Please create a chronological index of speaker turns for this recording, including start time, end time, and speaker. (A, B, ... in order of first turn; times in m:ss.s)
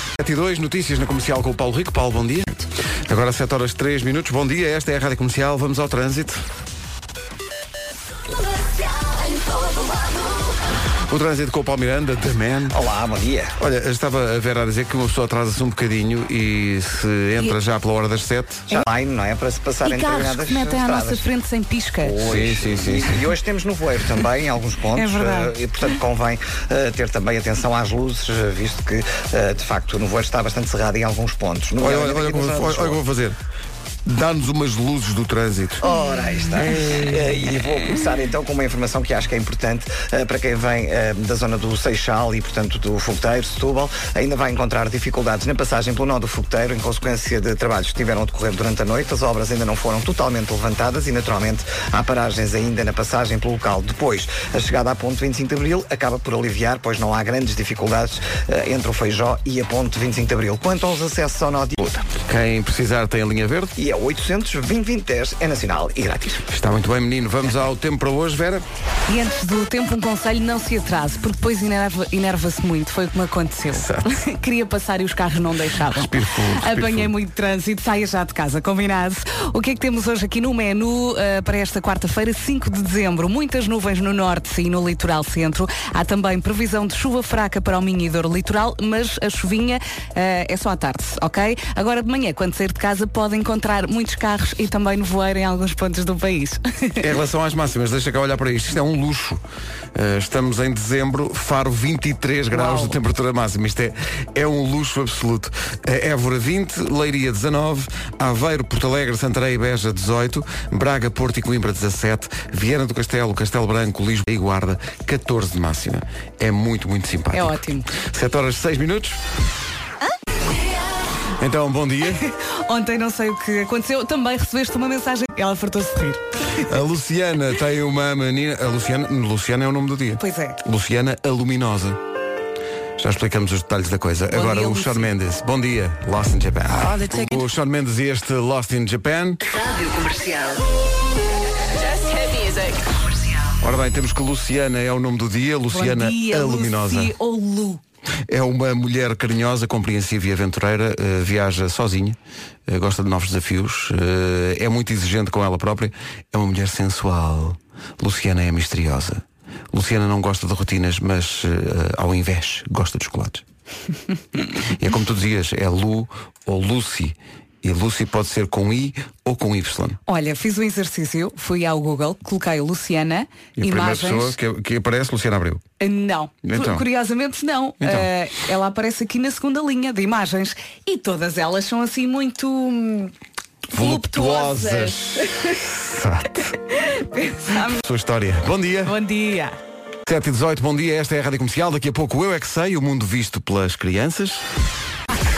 0:00.2-0:06.4 A
0:11.1-0:12.8 A
0:12.7-0:13.5 B
0:13.6-0:18.7 A
0:18.7-0:21.3 B
0:19.8-0:22.2 C
0:22.0-0:33.0 B
0:22.2-0:23.3 A
0:24.9-0:25.5 C
0:31.8-0:33.4 A
0:34.0-0:35.8 A
0:35.8-1:01.8 B
0:36.6-0:37.1 A
1:01.8-1:03.7 A
1:03.8-1:06.4 B
1:06.5-1:08.6 A
1:09.1-1:37.1 C
1:13.7-1:14.1 A
1:15.9-1:17.1 A
1:37.0-1:39.4 A
1:39.9-1:59.2 A
1:42.5-1:43.0 C
1:57.3-1:57.8 C
2:01.4-2:02.2 A
2:02.2-2:06.2 C
2:06.6-2:12.0 A
2:10.2-2:10.6 C
2:13.0-2:19.4 A
2:14.3-2:15.1 C
2:19.5-2:20.6 D
2:21.7-2:22.9 D
2:23.6-2:27.1 A
2:25.7-2:27.8 C
2:28.3-2:32.2 A
2:32.7-2:43.4 A
2:44.8-2:50.0 A
2:50.1-2:54.4 C
2:53.6-2:55.6 A
2:55.8-3:03.1 C
2:56.4-2:56.8 A
2:57.8-2:58.1 A
3:03.7-3:06.5 A
3:03.7-3:05.6 C
3:06.7-3:07.8 C
3:07.7-3:08.9 A
3:08.8-3:09.6 C
3:10.1-3:14.4 A